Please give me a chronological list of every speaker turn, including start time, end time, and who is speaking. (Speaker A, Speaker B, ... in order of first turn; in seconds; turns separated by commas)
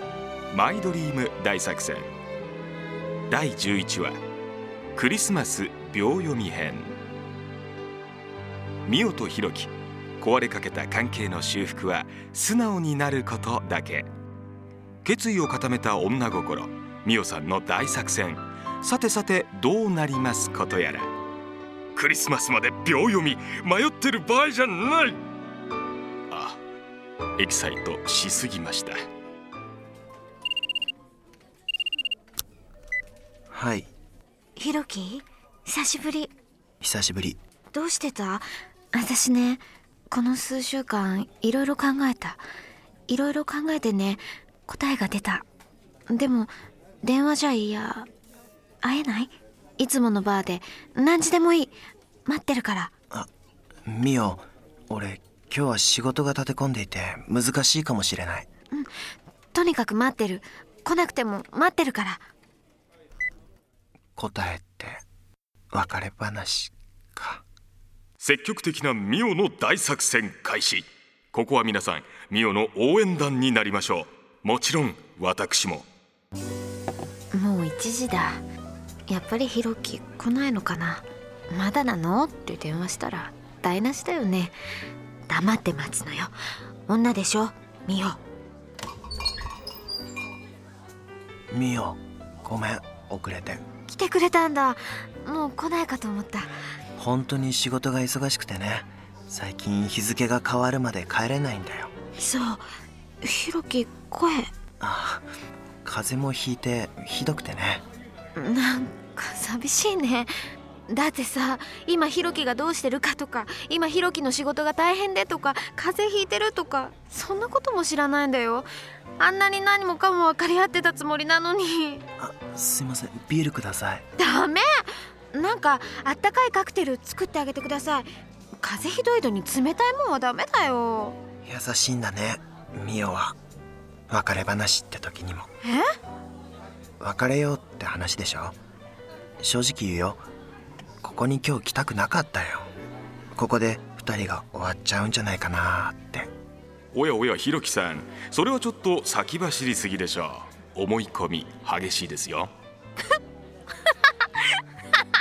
Speaker A: 0.5-2.1, Speaker A: 3.3-4.2, Speaker A: 4.9-6.9, Speaker A: 8.8-14.1, Speaker A: 15.0-21.1, Speaker A: 21.9-25.2, Speaker A: 26.3-26.6, Speaker A: 27.4-29.0, Speaker B: 33.5-33.9, Speaker C: 34.5-36.3, Speaker B: 36.8-37.4, Speaker C: 37.7-42.4, Speaker C: 43.1-45.5, Speaker C: 46.1-46.5, Speaker C: 47.0-48.1, Speaker C: 48.8-51.7, Speaker C: 52.3-52.9, Speaker B: 53.9-58.5, Speaker C: 59.5-62.2, Speaker B: 64.2-65.0, Speaker B: 65.7-67.4, Speaker A: 68.2-75.8, Speaker C: 77.3-78.4, Speaker C: 79.1-84.5, Speaker C: 85.3-86.3, Speaker C: 86.9-88.2, Speaker B: 91.5-93.6, Speaker C: 93.9-96.5, Speaker B: 97.0-101.9, Speaker C: 102.2-102.6, Speaker C: 103.2-104.5, Speaker B: 104.8-105.2, Speaker B: 105.8-107.8, Speaker C: 108.3-110.3, Speaker C: 110.9-118.7, Speaker C: 119.2-122.0, Speaker B: 122.2-124.0, Speaker C: 124.2-128.1, Speaker C: 128.6-131.2, Speaker B: 131.4-133.3, Speaker B: 134.1-135.5, Speaker B: 137.0-138.6, Speaker B: 139.4-140.2, Speaker B: 141.0-142.7, Speaker B: 143.3-146.3, Speaker A: 146.9-152.5